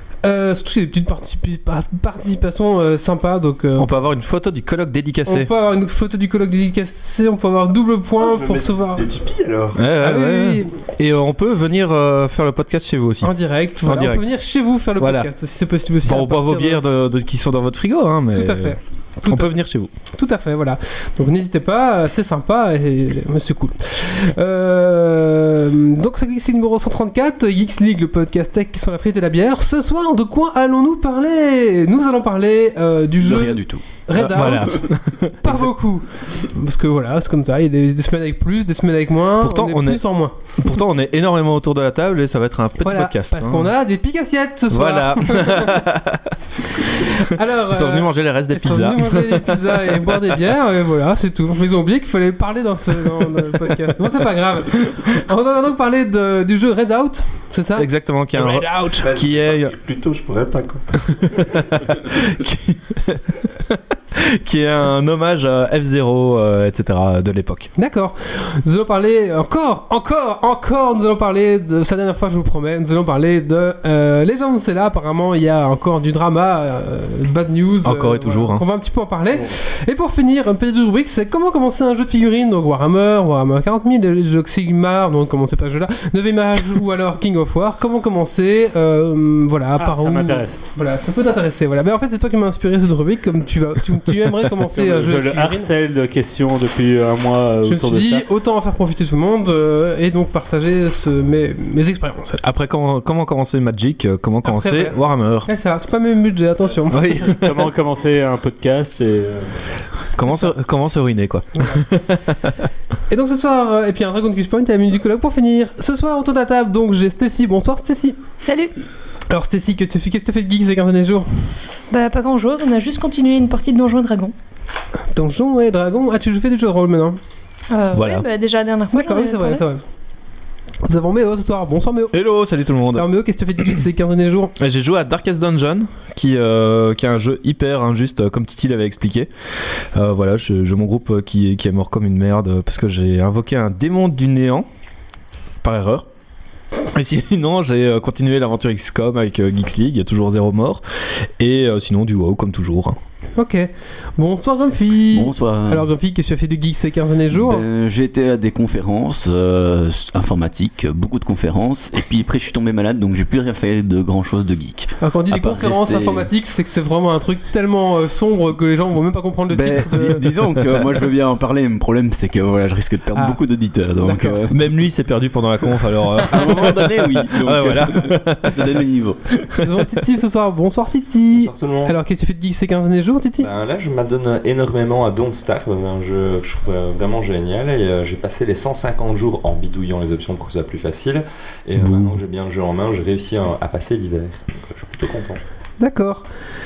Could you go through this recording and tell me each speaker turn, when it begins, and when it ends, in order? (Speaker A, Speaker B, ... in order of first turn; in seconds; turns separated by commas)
Speaker A: 0.2-3.9, Speaker B: 3.8-5.5, Speaker A: 5.3-9.0, Speaker C: 8.2-9.8, Speaker B: 9.8-14.3, Speaker A: 10.0-10.7, Speaker A: 13.2-16.8, Speaker B: 15.0-15.3, Speaker B: 16.0-19.9, Speaker A: 18.3-19.5, Speaker A: 20.1-34.9, Speaker D: 33.2-33.8, Speaker B: 34.1-35.7, Speaker A: 35.4-40.4, Speaker B: 39.4-40.0, Speaker B: 40.6-43.7, Speaker A: 42.8-45.8, Speaker B: 44.7-50.3, Speaker A: 47.0-59.0, Speaker B: 57.8-59.8, Speaker C: 59.0-61.6, Speaker B: 61.1-67.7, Speaker A: 67.8-95.7, Speaker B: 77.8-78.7, Speaker E: 89.8-90.6, Speaker E: 94.7-98.2, Speaker A: 97.7-102.4, Speaker B: 102.4-105.5, Speaker A: 104.5-107.1, Speaker B: 106.9-107.7, Speaker E: 107.2-109.6, Speaker B: 110.2-112.5, Speaker A: 113.1-118.2, Speaker F: 118.4-118.7, Speaker A: 119.3-121.3, Speaker F: 121.9-124.3, Speaker A: 125.1-127.2, Speaker F: 127.7-129.7, Speaker B: 127.9-128.2, Speaker A: 128.9-129.8, Speaker A: 130.8-132.2, Speaker B: 132.1-133.1, Speaker A: 132.9-134.6, Speaker B: 134.6-139.3, Speaker B: 139.9-144.7, Speaker B: 145.6-146.1, Speaker B: 146.9-150.8, Speaker B: 151.4-153.0, Speaker A: 153.4-157.6, Speaker D: 155.1-155.9, Speaker D: 157.3-166.3, Speaker A: 165.0-170.4, Speaker D: 169.5-174.7, Speaker A: 173.1-173.4, Speaker A: 174.0-174.5, Speaker B: 174.5-178.7, Speaker D: 176.2-179.2, Speaker B: 179.4-179.9, Speaker A: 179.6-183.5, Speaker G: 181.3-181.9, Speaker G: 183.4-195.4, Speaker B: 191.8-192.2, Speaker A: 195.8-196.2